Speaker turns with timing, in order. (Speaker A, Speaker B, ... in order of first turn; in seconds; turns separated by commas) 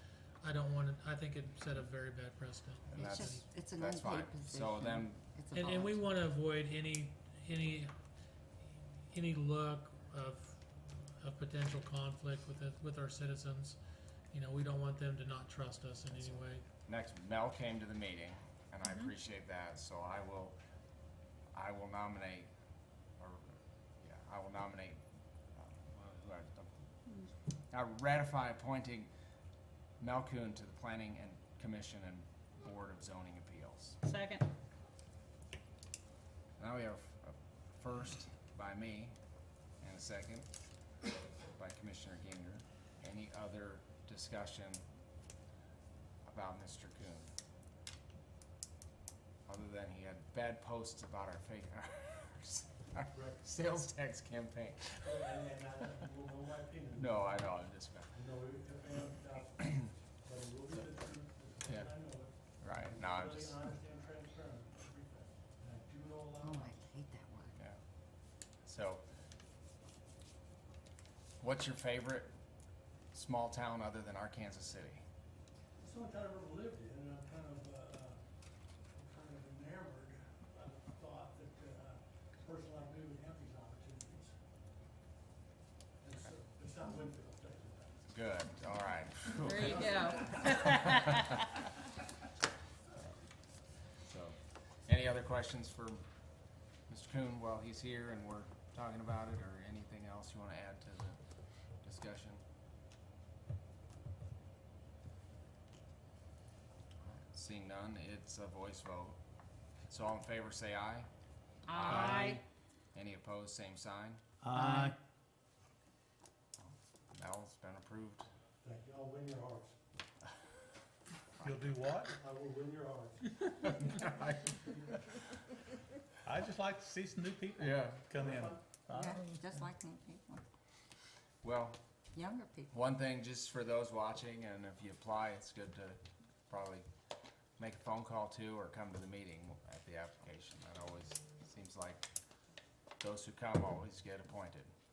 Speaker A: 0.4-3.5, Speaker B: 2.9-5.3, Speaker C: 3.0-6.0, Speaker A: 5.5-7.9, Speaker A: 9.1-10.6, Speaker A: 11.2-13.8, Speaker A: 14.3-16.6, Speaker B: 16.1-20.6, Speaker B: 21.5-22.5, Speaker B: 23.2-25.0, Speaker B: 25.5-26.7, Speaker B: 27.7-29.1, Speaker B: 30.0-34.0, Speaker D: 34.0-34.4, Speaker B: 36.6-39.1, Speaker B: 39.8-40.5, Speaker B: 41.5-44.8, Speaker B: 46.3-47.3, Speaker B: 49.5-55.3, Speaker E: 53.1-53.4, Speaker E: 55.0-57.5, Speaker B: 57.0-58.1, Speaker E: 58.1-66.8, Speaker B: 61.7-62.0, Speaker B: 62.6-63.6, Speaker C: 66.4-67.5, Speaker B: 68.6-69.0, Speaker B: 71.4-72.3, Speaker B: 73.1-75.0, Speaker E: 75.8-78.2, Speaker E: 78.9-84.3, Speaker E: 86.0-88.0, Speaker B: 88.1-90.8, Speaker D: 89.4-91.4, Speaker E: 89.5-90.7, Speaker B: 94.0-96.0, Speaker B: 96.9-101.2, Speaker B: 101.7-102.4, Speaker B: 107.0-109.2, Speaker B: 109.9-111.1, Speaker D: 111.7-112.4, Speaker B: 111.7-112.4, Speaker F: 111.9-112.4, Speaker B: 112.9-114.2, Speaker F: 114.4-114.9, Speaker D: 114.5-114.9, Speaker B: 116.6-118.3, Speaker E: 118.6-119.8, Speaker F: 121.4-122.1, Speaker E: 122.0-124.9, Speaker B: 123.6-124.5, Speaker F: 126.2-129.6, Speaker B: 127.6-128.2, Speaker E: 128.1-128.8, Speaker C: 128.9-130.4, Speaker B: 131.4-131.8, Speaker C: 132.1-132.7, Speaker B: 132.7-136.8, Speaker B: 137.6-142.1, Speaker B: 143.0-144.7